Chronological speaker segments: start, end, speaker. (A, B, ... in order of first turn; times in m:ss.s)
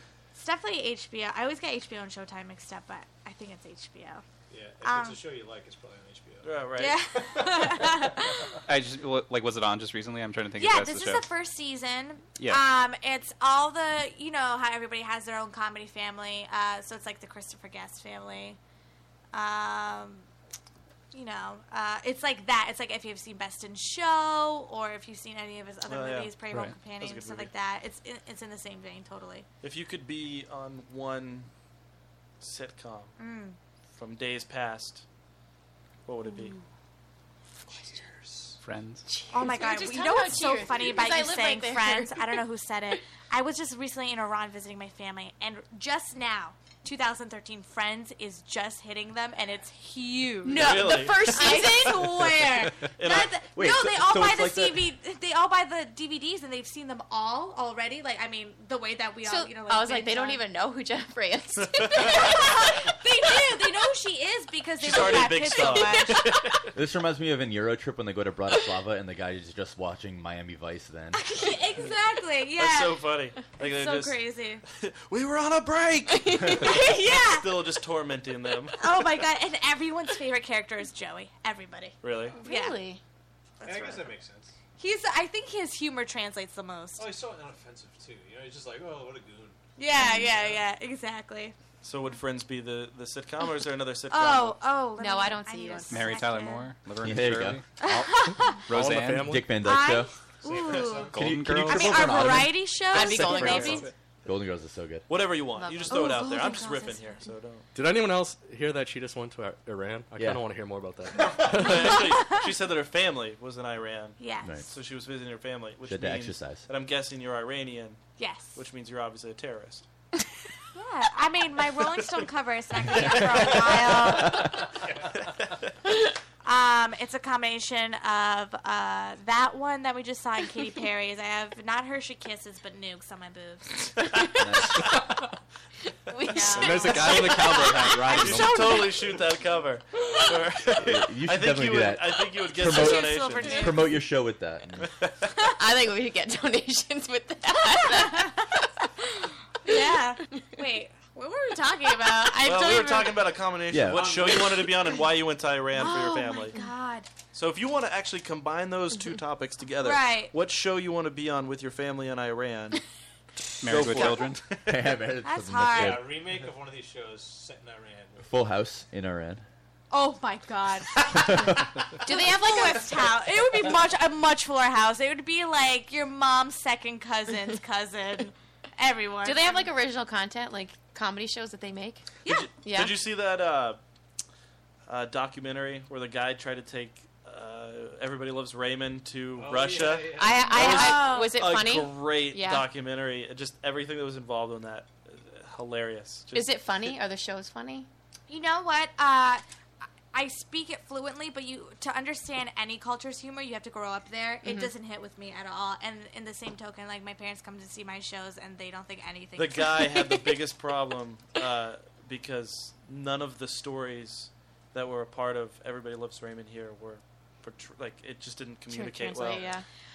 0:00.3-0:04.2 A
0:04.5-0:08.1 B
0:04.8-0:05.2 A
0:06.4-0:07.0 C
0:06.8-0:08.5 A
0:08.7-0:11.3 D
0:10.6-0:18.6 A
0:12.4-0:12.6 D
0:19.3-0:20.3 A
0:21.1-0:29.5 A
0:25.9-0:26.3 C
0:27.0-0:27.5 C
0:29.6-0:31.5 C
0:32.4-0:33.2 C
0:33.2-0:33.6 A
0:34.0-0:35.0 C
0:36.1-0:36.6 C
0:37.7-0:38.6 B
0:38.6-0:39.1 D
0:39.1-0:42.4 E
0:39.3-1:00.4 A
0:50.4-0:52.5 E
0:50.5-0:51.8 C
0:52.8-0:53.4 C
0:53.6-0:54.9 F
0:59.2-1:02.6 E
1:01.8-1:02.2 C
1:01.9-1:06.2 A
1:04.8-1:06.7 C
1:05.4-1:06.1 E
1:06.7-1:11.2 F
1:11.1-1:14.6 A
1:12.6-1:14.2 C
1:14.7-1:18.9 C
1:16.1-1:16.9 E
1:16.5-1:17.5 A
1:18.8-1:22.8 A
1:22.0-1:22.4 C
1:22.3-1:23.0 E
1:23.6-1:24.1 A
1:23.6-1:24.5 B
1:24.8-1:27.1 A
1:27.0-1:30.6 B
1:29.8-1:31.6 A
1:30.0-1:30.3 E
1:31.8-1:34.6 C
1:34.1-1:36.7 A
1:35.0-1:36.5 E
1:35.9-1:39.4 D
1:37.0-1:37.6 F
1:37.8-1:38.6 A
1:38.7-1:39.5 G
1:39.2-1:40.1 F
1:39.6-1:43.9 A
1:40.4-1:41.3 B
1:41.1-1:43.9 D
1:41.1-1:43.7 F
1:42.9-1:43.9 E
1:44.2-1:45.1 F
1:45.1-1:47.6 C
1:45.5-1:46.6 E
1:45.9-1:47.2 A
1:47.7-1:52.1 G
1:50.2-1:50.4 F
1:51.2-1:51.7 B
1:51.4-1:58.0 C
1:54.2-1:54.7 A
1:54.4-1:54.7 F
1:55.9-1:56.7 F
1:58.2-1:58.6 A
1:58.6-1:59.8 C
2:00.7-2:04.6 A
2:04.8-2:05.3 B
2:06.4-2:13.9 A
2:14.3-2:14.9 F
2:16.1-2:19.2 E
2:16.3-2:17.5 A
2:16.5-2:18.7 G
2:18.1-2:23.7 C
2:20.8-2:25.0 F
2:22.6-2:23.9 A
2:25.5-2:28.6 E
2:28.0-2:28.4 A
2:29.6-2:33.1 A
2:32.0-2:33.2 E
2:32.4-2:36.6 C
2:33.7-2:34.3 F
2:33.8-2:34.8 B
2:35.8-2:36.7 E
2:35.8-2:37.1 A
2:37.3-2:42.8 C
2:39.8-2:40.3 A
2:43.6-2:44.4 D
2:43.6-2:44.6 C
2:44.7-2:46.3 F
2:45.2-2:46.1 A
2:45.7-2:48.3 B
2:48.2-2:49.4 F
2:49.9-2:51.4 A
2:51.1-2:51.8 F
2:52.0-2:59.7 A
2:52.0-2:53.1 E
2:59.2-3:02.1 E
3:02.3-3:03.8 C
3:02.6-3:03.0 E
3:04.9-3:17.0 C
3:09.4-3:10.6 B
3:10.1-3:12.7 E
3:10.5-3:11.3 A
3:16.3-3:17.9 E
3:18.3-3:19.4 A
3:20.1-3:30.1 A
3:24.4-3:24.7 E
3:29.4-3:39.6 C
3:38.7-3:39.7 E